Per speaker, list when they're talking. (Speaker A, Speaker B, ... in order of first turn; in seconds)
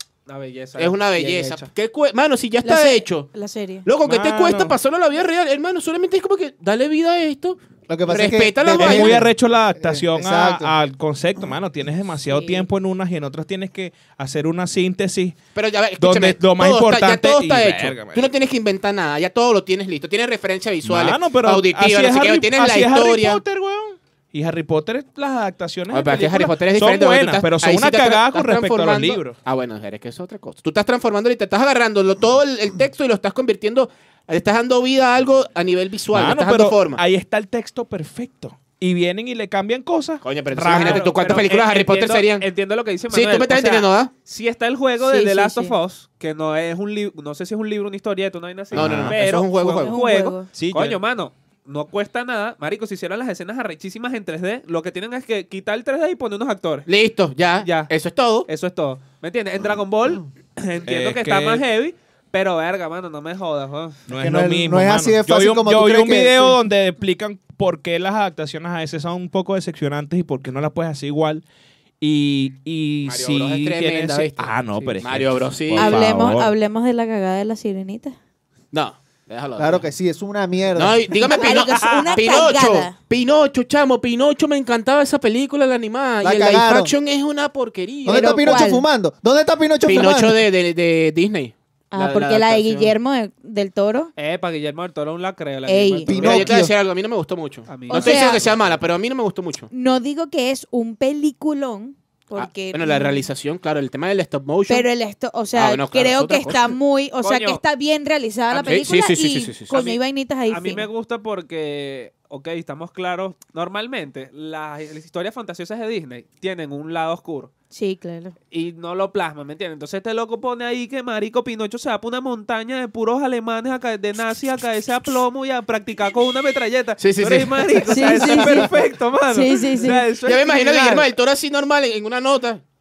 Speaker A: 0.3-1.1, 40.6-56.9, 57.6-57.9, 58.5-64.0, 94.2-96.5, 97.7-98.4, 107.2-107.6, 109.7-117.5, 118.5-131.1
Speaker B: 0.8-3.3, 3.8-9.2, 15.5-23.4, 25.9-37.0, 40.2-42.5, 43.1-44.1, 48.7-50.0, 56.9-58.5, 73.0-76.0, 78.7-79.9, 80.7-88.5, 89.8-92.9, 96.2-99.7, 102.3-104.9, 105.5-106.8, 108.5-109.8, 127.0-128.3, 130.2-132.6
Speaker C: 1.2-1.7, 7.9-10.7, 64.2-66.6, 79.6-81.1, 86.2-86.9, 88.0-90.4, 96.0-96.7
Speaker D: 2.6-3.9, 12.3-12.7, 45.0-45.8, 49.7-50.5, 75.8-78.2, 81.2-82.9, 88.1-88.8, 91.9-94.1, 95.7-96.3, 97.9-98.4, 99.7-103.2, 104.7-110.9, 117.7-118.3, 127.9-128.7, 129.3-130.0
Speaker E: 4.0-4.8, 8.7-15.4, 16.0-18.3, 20.8-29.4, 36.1-41.1, 48.7-49.2, 50.5-51.0, 60.9-61.6, 64.1-71.4, 72.0-76.5